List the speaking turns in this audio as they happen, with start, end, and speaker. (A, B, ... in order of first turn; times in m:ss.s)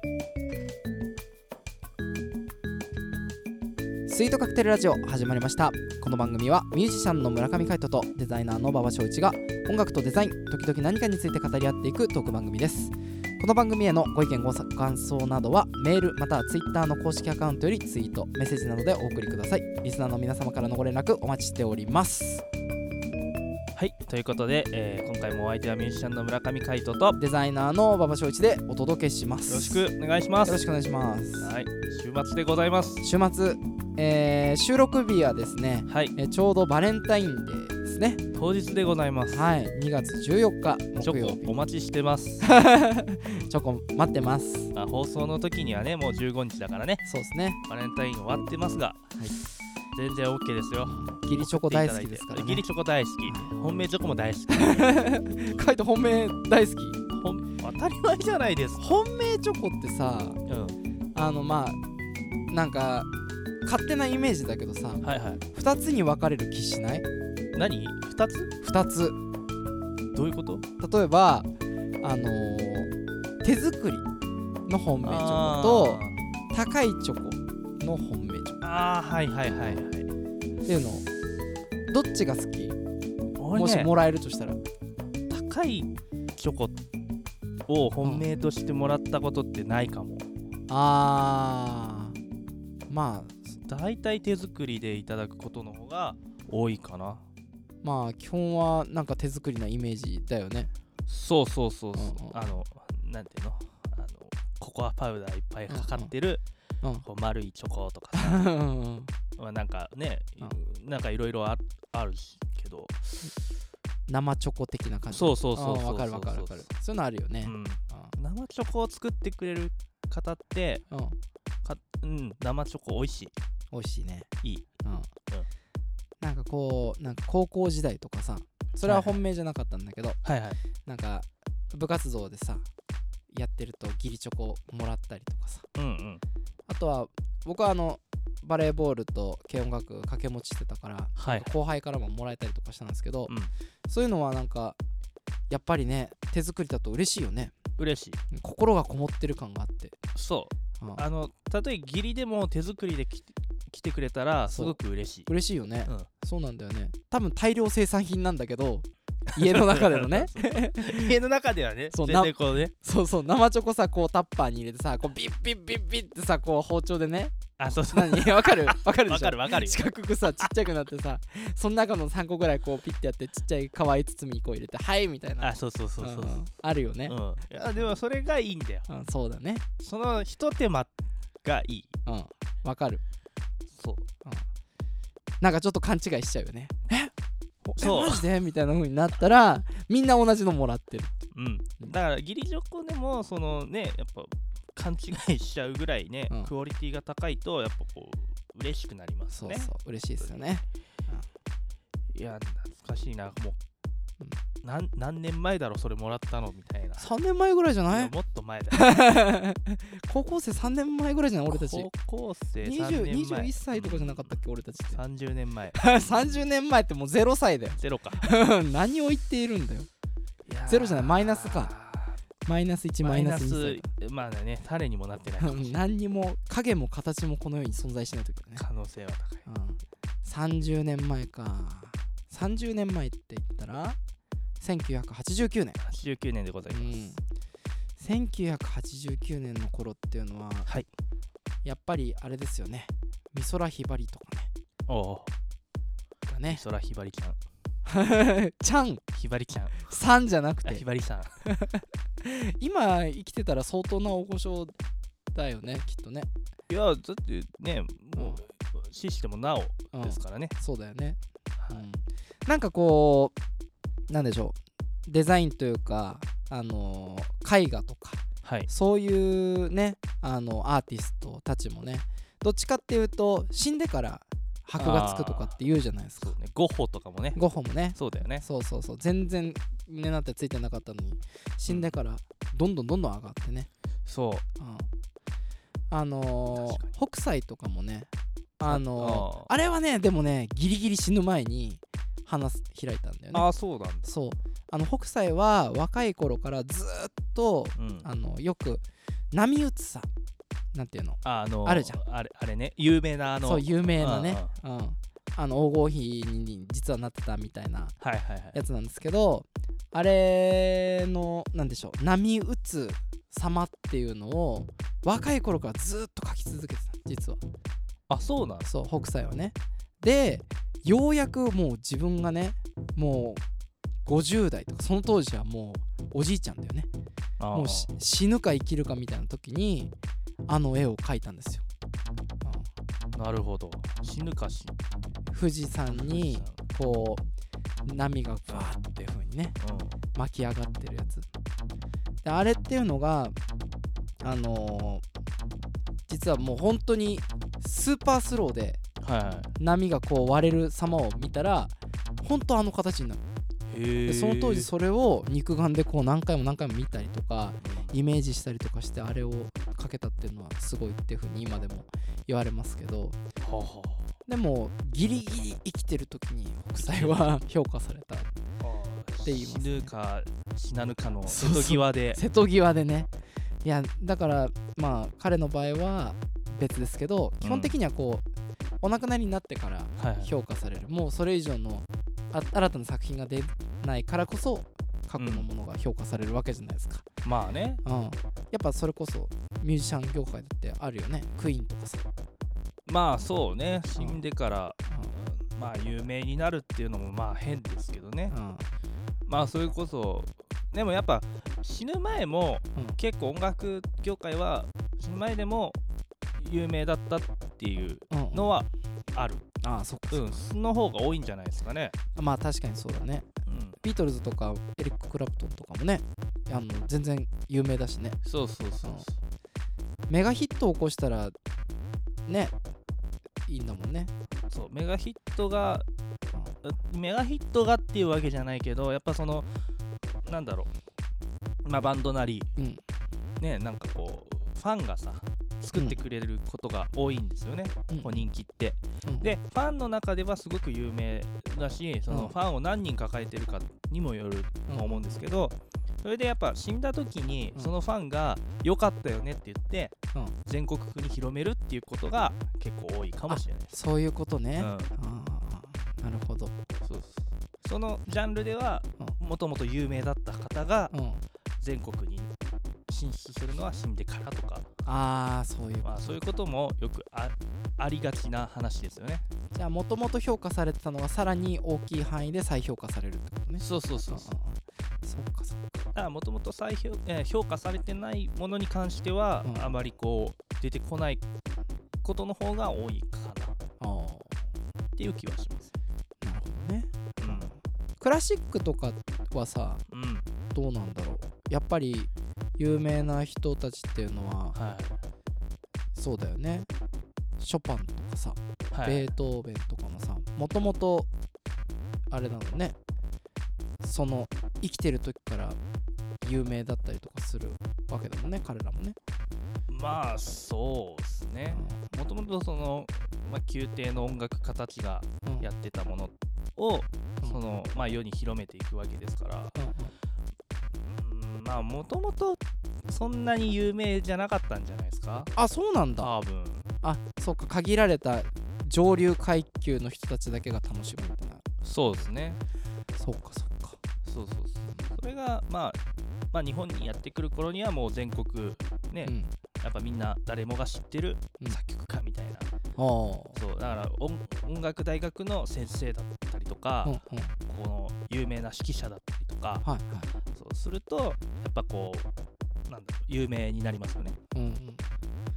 0:04.1-0:22.4 A
0:23.8-0:27.2 B
0:27.2-0:29.8 A
0:29.5-0:30.6 B
0:30.4-0:31.5 A
0:31.4-0:33.0 B
0:33.0-0:38.3 A
0:35.9-0:36.1 B
0:38.3-0:39.5 B
0:39.3-0:41.6 A
0:41.0-0:42.5 B
0:42.4-0:44.7 A
0:43.2-0:43.5 B
0:44.7-0:47.0 B
0:47.0-0:47.6 A
0:47.6-0:49.2 B
0:49.9-0:55.6 B
0:50.8-0:52.7 A
0:54.5-0:57.0 A
0:57.1-0:58.9 B
0:58.8-1:00.4 A
1:00.5-1:00.8 B
1:01.2-1:01.8 A
1:02.5-1:03.1 A
1:03.6-1:07.0 A
1:05.0-1:05.4 B
1:07.6-1:08.5 B
1:08.6-1:09.2 A
1:10.1-1:10.6 B
1:10.8-1:11.5 A
1:12.0-1:12.9 A
1:13.4-1:14.1 A
1:14.7-1:18.6 A
1:15.0-1:16.2 B
1:18.6-1:20.1 B
1:19.5-1:19.8 A
1:20.6-1:21.1 A
1:21.9-1:22.8 A
1:23.4-1:23.9 B
1:23.5-1:24.6 A
1:25.3-1:26.8 B
1:27.7-1:30.2 B
1:28.0-1:28.3 A
1:30.7-1:32.2 A
1:32.9-1:33.6 A
1:33.6-1:37.2 B
1:37.8-1:40.7 A
1:41.1-1:46.4 B
1:41.9-1:42.4 A
1:45.7-1:46.1 A
1:47.0-1:48.5 B
1:48.1-1:49.1 A
1:49.4-1:53.4 B
1:54.1-1:58.2 A
1:55.1-1:56.7 B
1:57.4-2:00.8 B
2:00.9-2:01.2 A
2:01.6-2:03.3 B
2:03.7-2:04.3 A
2:04.8-2:05.1 A
2:06.2-2:10.2 A
2:08.8-2:09.2 B
2:10.2-2:10.6 B
2:10.8-2:12.6 A
2:13.3-2:15.6 A
2:15.8-2:16.2 B
2:16.7-2:23.3 A
2:21.2-2:21.5 B
2:23.9-2:24.8 A
2:25.5-2:27.6 A
2:27.8-2:28.2 B
2:28.3-2:30.0 A
2:30.2-2:35.3 B
2:34.5-2:41.2 A
2:39.3-2:42.7 B
2:41.9-2:47.4 A
2:47.6-2:50.5 B
2:47.9-2:57.2 A
2:55.4-2:56.5 B
2:57.1-2:58.9 B
2:58.9-2:59.6 A
2:59.8-3:00.9 B
3:01.4-3:01.9 B
3:02.1-3:03.0 A
3:03.8-3:04.1 B
3:05.4-3:07.1 A
3:07.7-3:08.2 B
3:07.7-3:11.2 A
3:11.3-3:19.7 B
3:19.3-3:21.3 A
3:22.1-3:23.6 B
3:24.6-3:27.1 B
3:27.0-3:28.1 A
3:27.9-3:29.1 B
3:28.7-3:31.9 A
3:31.5-3:34.4 B
3:32.6-3:35.0 A
3:34.9-3:36.5 B
3:35.8-3:39.9 A
3:37.8-3:38.3 B
3:40.5-3:42.2 B
3:40.7-3:41.7 A
3:42.5-3:43.8 A
3:43.0-3:45.8 B
3:45.4-3:48.6 A
3:48.6-3:49.5 B
3:49.4-3:54.0 A
3:54.6-3:55.8 A
3:55.8-3:57.2 B
3:56.7-3:57.2 A
3:58.0-4:00.7 A
4:01.6-4:04.5 A
4:04.9-4:05.3 B
4:06.3-4:06.6 A
4:06.4-4:07.4 B
4:07.8-4:09.0 A
4:09.1-4:10.0 B
4:09.9-4:10.8 A
4:10.6-4:11.4 B
4:11.4-4:14.8 A
4:15.3-4:16.3 A
4:16.7-4:20.5 B
4:18.2-4:18.4 A
4:19.9-4:21.2 A
4:21.6-4:21.8 B
4:21.7-4:23.4 A
4:24.1-4:36.4 A
4:28.4-4:28.7 B
4:34.8-4:35.6 B
4:36.2-4:37.4 B
4:37.4-4:43.7 A
4:38.0-4:38.4 B
4:41.7-4:42.0 B
4:44.1-4:44.4 B
4:44.6-4:44.9 A
4:45.9-4:53.5 A
4:46.5-4:46.9 B
4:48.6-4:49.5 B
4:53.3-4:54.1 B
4:54.0-5:00.1 A
4:57.8-4:58.1 B
5:00.7-5:02.0 A
5:01.2-5:04.6 B
5:03.4-5:08.0 A
5:08.0-5:08.6 B
5:08.5-5:17.4 A
5:18.1-5:18.7 B
5:18.6-5:23.4 A
5:24.0-5:26.9 A
5:27.4-5:27.9 B
5:27.5-5:29.9 A
5:30.5-5:31.6 A
5:33.1-5:34.7 B
5:35.3-5:37.2 A
5:35.9-5:36.6 B
5:37.8-5:39.6 A
5:38.5-5:38.7 B
5:39.6-5:40.0 B
5:40.2-5:41.3 A
5:42.2-5:43.4 A
5:44.2-5:45.0 A
5:46.1-5:48.8 A
5:49.0-5:49.5 B
5:49.6-5:53.2 A
5:53.7-5:54.7 B
5:54.1-6:03.2 A
5:57.6-5:57.9 B
6:03.4-6:04.1 B
6:04.3-6:08.3 A
6:06.8-6:07.4 B
6:08.6-6:12.2 B
6:09.2-6:09.9 A
6:11.3-6:13.1 A
6:13.6-6:18.2 A
6:17.4-6:17.8 B
6:18.8-6:27.1 A
6:20.0-6:20.3 B
6:25.2-6:25.5 B
6:27.2-6:27.8 B
6:27.8-6:32.0 A
6:32.9-6:38.3 B
6:34.0-6:34.2 A
6:34.9-6:35.1 A
6:38.3-6:38.7 A
6:39.3-6:45.8 B
6:46.4-6:49.4 B
6:48.1-6:48.5 A
6:49.6-6:50.4 A
6:50.1-6:52.0 B
6:52.2-6:53.3 A
6:53.5-6:53.8 B
6:53.8-6:58.2 A
6:58.2-6:59.2 B
7:00.1-7:01.4 A
7:02.3-7:02.5 A
7:03.5-7:04.1 A
7:04.5-7:05.8 B
7:06.6-7:09.5 B
7:10.3-7:10.7 B
7:11.6-7:12.5 B
7:12.6-7:12.8 A
7:13.4-7:33.8 B
7:15.7-7:16.0 A
7:17.9-7:18.2 A
7:19.0-7:19.4 A
7:22.1-7:22.4 A
7:24.7-7:25.2 A
7:33.3-7:36.6 A
7:34.6-7:34.9 B
7:36.8-7:40.9 B
7:40.9-7:41.2 A
7:41.6-7:42.3 B
7:42.9-7:44.7 B
7:44.8-7:46.3 A
7:45.8-7:49.2 B
7:49.5-7:55.8 A
7:53.6-7:54.3 B
7:56.0-8:01.2 B
7:59.4-7:59.7 A
8:02.0-8:03.6 B
8:03.8-8:04.3 A
8:05.0-8:05.7 B
8:06.2-8:09.8 A
8:07.2-8:07.5 B
8:09.9-8:10.3 B
8:10.5-8:14.6 A
8:14.5-8:15.0 B
8:16.0-8:16.7 A
8:17.4-8:21.1 A
8:18.7-8:19.1 B
8:22.1-8:22.8 A
8:23.8-8:25.6 A
8:26.2-8:29.0 A
8:29.7-8:39.6 B
8:31.5-8:31.8 A
8:39.6-8:39.9 A
8:40.9-8:45.3 B
8:45.4-8:46.1 A
8:46.0-8:46.7 B
8:46.8-8:51.4 A
8:51.6-8:52.4 B
8:53.0-8:53.8 A
8:54.0-8:55.8 B
8:56.3-9:02.5 B
8:59.0-8:59.3 A
9:02.8-9:03.4 A
9:03.4-9:09.6 B
9:06.8-9:07.3 A
9:09.6-9:10.1 A
9:10.3-9:12.1 B
9:12.7-9:14.2 B
9:14.3-9:14.8 A